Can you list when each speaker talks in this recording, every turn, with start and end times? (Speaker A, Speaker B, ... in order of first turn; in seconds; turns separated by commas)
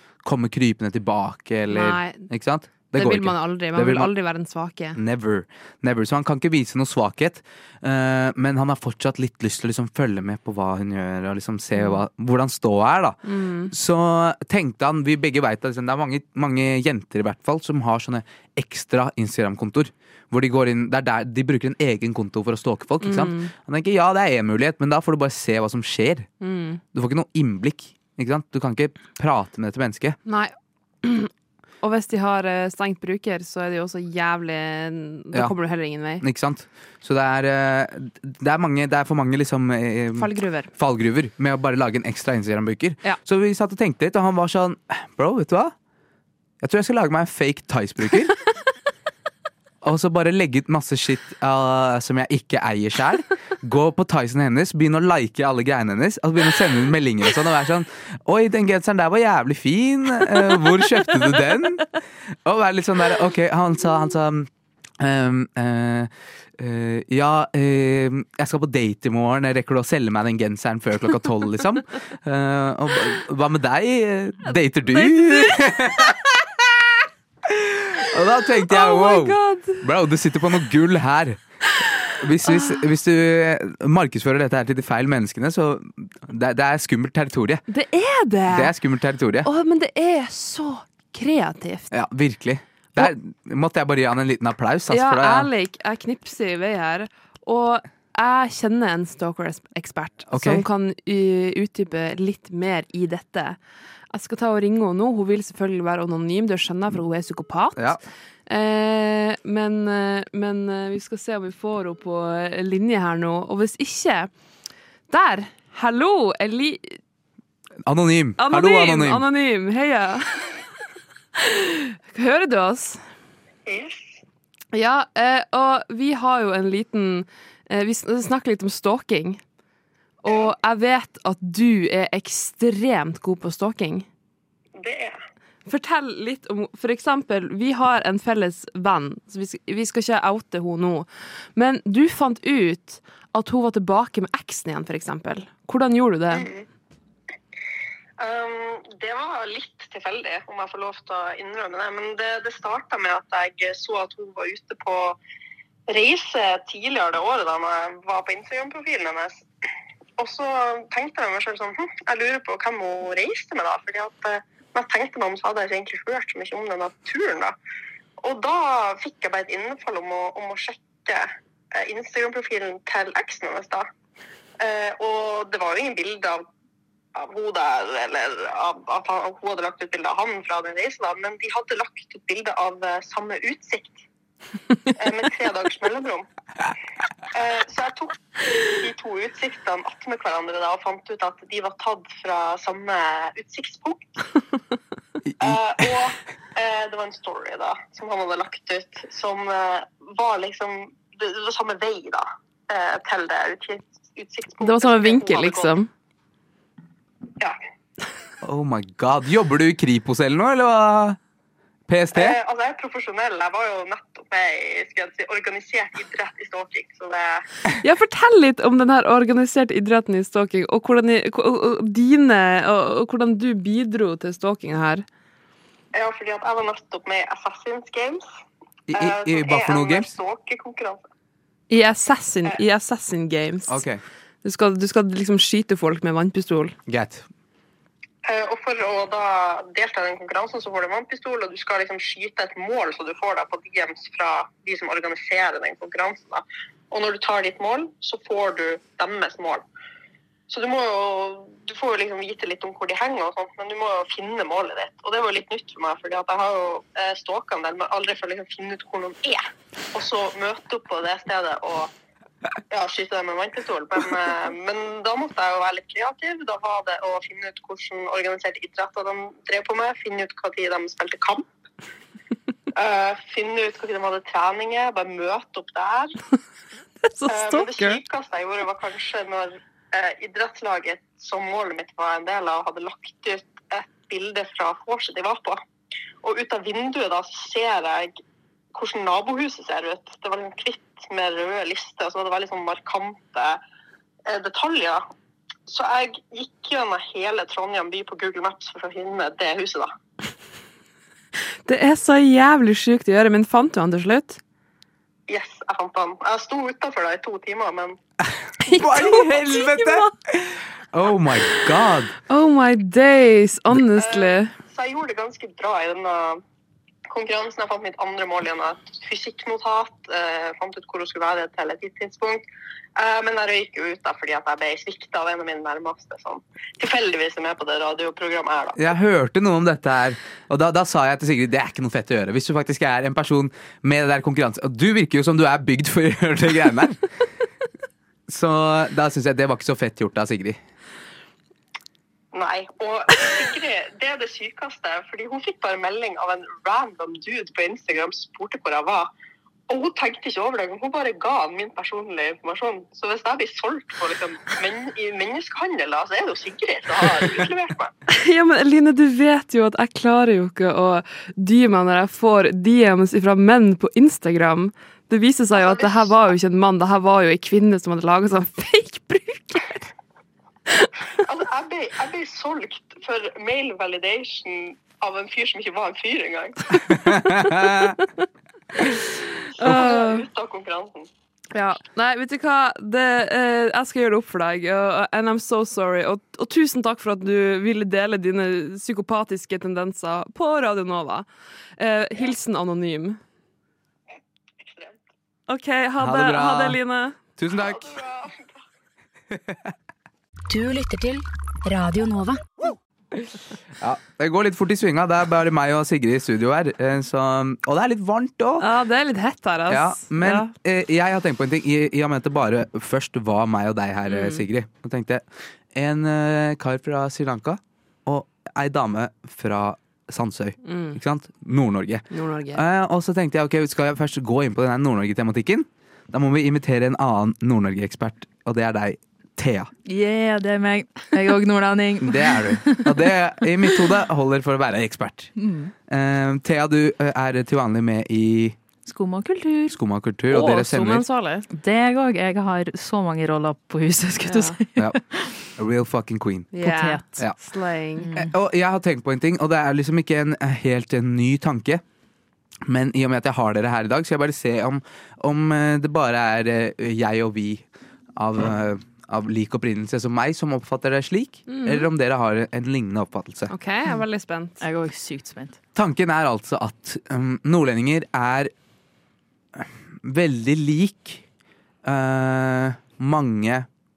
Speaker A: 0.2-4.1, Speaker B: 1.7-2.3, Speaker B: 2.9-5.0, Speaker A: 4.9-13.2, Speaker B: 11.8-12.0, Speaker B: 13.2-13.7, Speaker A: 13.7-26.3, Speaker B: 23.0-23.5, Speaker B: 26.4-26.8, Speaker A: 26.9-30.2, Speaker B: 30.2-31.3, Speaker B: 31.8-36.2, Speaker A: 36.2-45.7, Speaker B: 40.1-40.7, Speaker A: 46.6-48.3, Speaker A: 49.8-61.9, Speaker A: 62.4-76.6, Speaker B: 74.5-76.2, Speaker A: 77.4-81.4, Speaker B: 78.5-79.9, Speaker A: 82.2-87.6, Speaker B: 82.4-82.8, Speaker B: 87.7-88.7, Speaker A: 88.5-89.5, Speaker B: 89.4-91.9, Speaker A: 91.9-95.5, Speaker B: 94.9-103.6, Speaker A: 100.3-100.6, Speaker B: 104.1-114.3, Speaker B: 115.1-117.0, Speaker A: 117.8-119.2, Speaker B: 118.4-120.6, Speaker B: 121.3-123.0, Speaker C: 123.7-124.2, Speaker B: 124.7-129.4, Speaker B: 130.2-134.1, Speaker C: 134.8-135.2, Speaker B: 135.7-146.5, Speaker C: 146.3-146.7, Speaker C: 148.2-155.2, Speaker C: 155.9-159.4, Speaker C: 160.2-167.5, Speaker C: 168.2-173.9, Speaker C: 174.6-176.4, Speaker C: 177.1-184.0, Speaker C: 184.9-186.2, Speaker C: 187.3-194.2, Speaker A: 195.2-195.8, Speaker C: 195.4-205.8, Speaker B: 204.6-205.9, Speaker A: 208.4-211.2, Speaker A: 211.9-212.3, Speaker C: 212.1-217.4, Speaker B: 217.8-225.1, Speaker C: 225.9-228.3, Speaker A: 228.9-230.1, Speaker C: 228.9-231.0, Speaker B: 231.7-233.8, Speaker A: 233.7-234.0, Speaker B: 234.4-236.8, Speaker A: 236.9-237.2, Speaker C: 238.2-249.6, Speaker C: 250.5-261.9, Speaker C: 262.7-271.5, Speaker C: 272.7-276.1, Speaker B: 277.0-278.0, Speaker C: 277.3-285.6, Speaker C: 286.2-288.2, Speaker C: 288.7-293.6, Speaker C: 294.3-295.0, Speaker C: 295.7-299.9, Speaker B: 301.6-304.4, Speaker C: 305.3-308.0, Speaker B: 308.6-310.1, Speaker A: 308.7-312.1, Speaker B: 312.3-314.5, Speaker C: 313.9-316.4, Speaker C: 317.1-322.4, Speaker C: 322.9-328.8, Speaker A: 328.8-337.0, Speaker A: 338.3-340.6, Speaker C: 342.3-349.1, Speaker C: 349.7-357.9, Speaker B: 358.1-369.8, Speaker C: 365.6-366.2, Speaker C: 371.2-376.9, Speaker A: 376.9-377.9, Speaker B: 377.4-378.1, Speaker B: 379.6-380.2, Speaker C: 379.6-381.1, Speaker B: 381.5-391.2, Speaker B: 391.8-393.2, Speaker C: 394.6-395.0, Speaker B: 395.5-397.2, Speaker A: 396.0-396.8, Speaker A: 397.4-397.9, Speaker C: 397.6-398.5, Speaker A: 399.3-399.7, Speaker D: 400.5-402.4, Speaker A: 403.8-408.7, Speaker B: 408.6-410.5, Speaker A: 409.7-429.7, Speaker B: 414.1-414.4, Speaker B: 420.6-421.0, Speaker B: 422.1-422.6, Speaker E: 429.9-433.8, Speaker A: 432.0-435.3, Speaker E: 435.4-435.7, Speaker A: 435.9-438.6, Speaker E: 438.8-439.8, Speaker A: 439.7-441.0, Speaker B: 440.3-441.4, Speaker E: 441.5-445.4, Speaker B: 444.2-444.6, Speaker A: 445.5-446.6, Speaker B: 446.5-448.1, Speaker E: 446.6-447.2, Speaker E: 448.0-448.3, Speaker A: 448.1-451.8, Speaker A: 452.6-463.5, Speaker B: 461.5-461.9, Speaker B: 463.5-464.6, Speaker E: 464.6-465.6, Speaker A: 465.7-468.5, Speaker A: 469.6-471.2, Speaker A: 471.8-473.7